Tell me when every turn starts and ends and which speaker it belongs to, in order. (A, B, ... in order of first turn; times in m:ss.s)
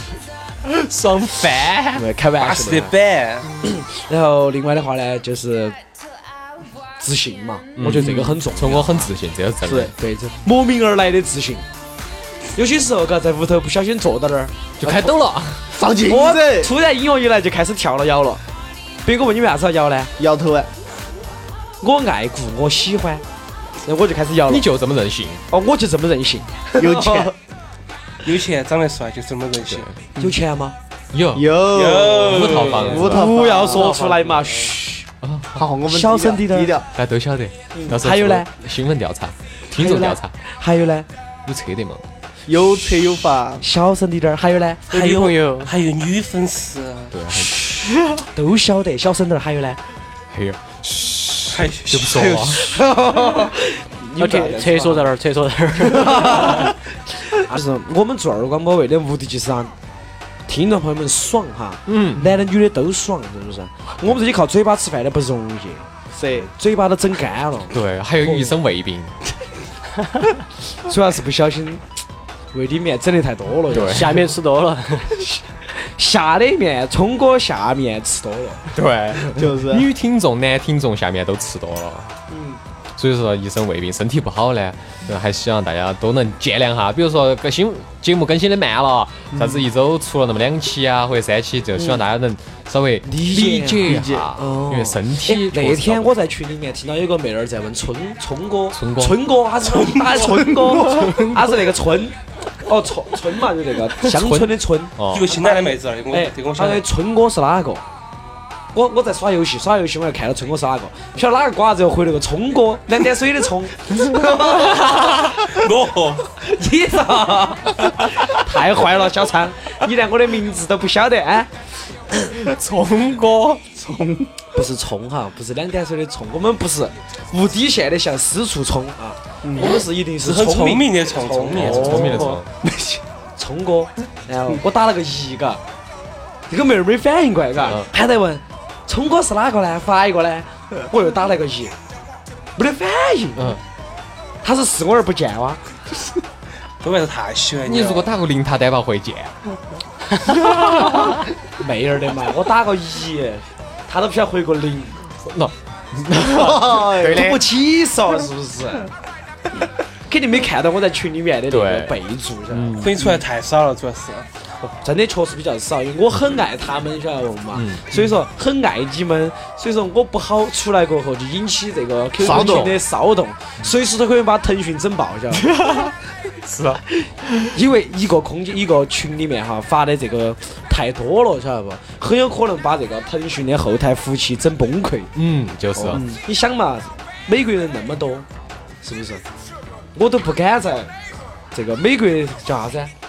0:00.6-0:02.0 A
0:02.0-0:02.9 B
0:02.4-0:03.5 C
0:03.6-0:05.8 B
0:07.0-0:09.1 B
0:07.8-0:09.9 A
0:09.8-0:11.6 B
0:12.6-0:15.1 B
0:14.8-0:15.8 A
0:15.7-0:16.7 D
0:16.0-0:18.4 B
0:19.0-0:20.1 B
0:20.2-0:20.7 D
0:21.8-0:23.2 B
0:23.8-0:24.7 B
0:24.5-0:25.4 A
0:25.5-0:27.3 B
0:26.8-0:27.4 D
0:28.2-0:29.9 C
0:29.7-0:30.0 A
0:30.2-0:30.8 B
0:31.1-0:31.6 A
0:31.3-0:34.0 D
0:31.7-0:33.2 C
0:32.3-0:33.3 A
0:33.0-0:35.0 B
0:33.9-0:34.7 E
0:35.2-0:35.7 A
0:35.6-0:36.9 D
0:35.9-0:36.7 B
0:36.9-0:40.3 A
0:37.7-0:38.5 B
0:39.7-0:41.1 B
0:41.5-0:42.0 A
0:42.5-0:43.6 D
0:43.6-0:45.3 B
0:44.9-0:47.2 C
0:44.9-0:45.7 E
0:47.1-0:48.2 A
0:48.3-0:49.8 B
0:50.3-0:52.8 A
0:51.5-0:52.7 C
0:52.7-0:55.1 B
0:54.2-0:56.7 E
0:55.8-0:59.7 B
1:00.5-1:08.5 B
1:01.9-1:02.3 A
1:06.1-1:06.5 D
1:07.7-1:09.2 A
1:10.8-1:11.8 B
1:12.5-1:14.2 B
1:13.7-1:14.2 A
1:13.9-1:15.2 E
1:15.7-1:18.7 B
1:18.7-1:22.2 A
1:19.3-1:19.9 D
1:23.0-1:36.2 A
1:29.3-1:29.6 D
1:33.0-1:47.8 B
1:33.8-1:34.3 D
1:38.7-1:39.2 A
1:39.8-1:40.3 C
1:40.8-1:41.1 D
1:44.0-1:45.4 A
1:45.1-1:46.9 C
1:48.7-1:54.9 B
1:55.3-1:56.4 C
1:56.4-2:01.5 B
2:02.3-2:03.8 A
2:03.9-2:04.3 D
2:04.5-2:12.4 B
2:09.4-2:09.8 D
2:10.2-2:12.2 C
2:11.5-2:12.5 A
2:12.6-2:13.0 D
2:13.4-2:15.6 B
2:16.5-2:21.7 B
2:22.6-2:23.6 B
2:24.4-2:25.6 B
2:26.8-2:28.1 C
2:27.7-2:29.3 A
2:30.3-2:31.1 A
2:31.6-2:35.0 B
2:35.2-2:37.4 A
2:36.3-2:37.3 D
2:37.0-2:38.9 B
2:40.1-2:42.8 B
2:41.5-2:42.0 A
2:42.5-2:43.0 A
2:42.8-2:44.3 C
2:44.8-2:55.7 B
2:47.5-2:48.1 A
2:52.2-2:52.8 A
2:52.2-2:52.7 D
2:55.5-2:55.9 A
2:56.4-2:57.5 A
2:57.5-3:05.1 B
3:05.2-3:06.0 A
3:05.8-3:08.3 B
3:05.9-3:06.2 D
3:08.8-3:09.2 B
3:10.0-3:10.9 B
3:11.5-3:12.9 B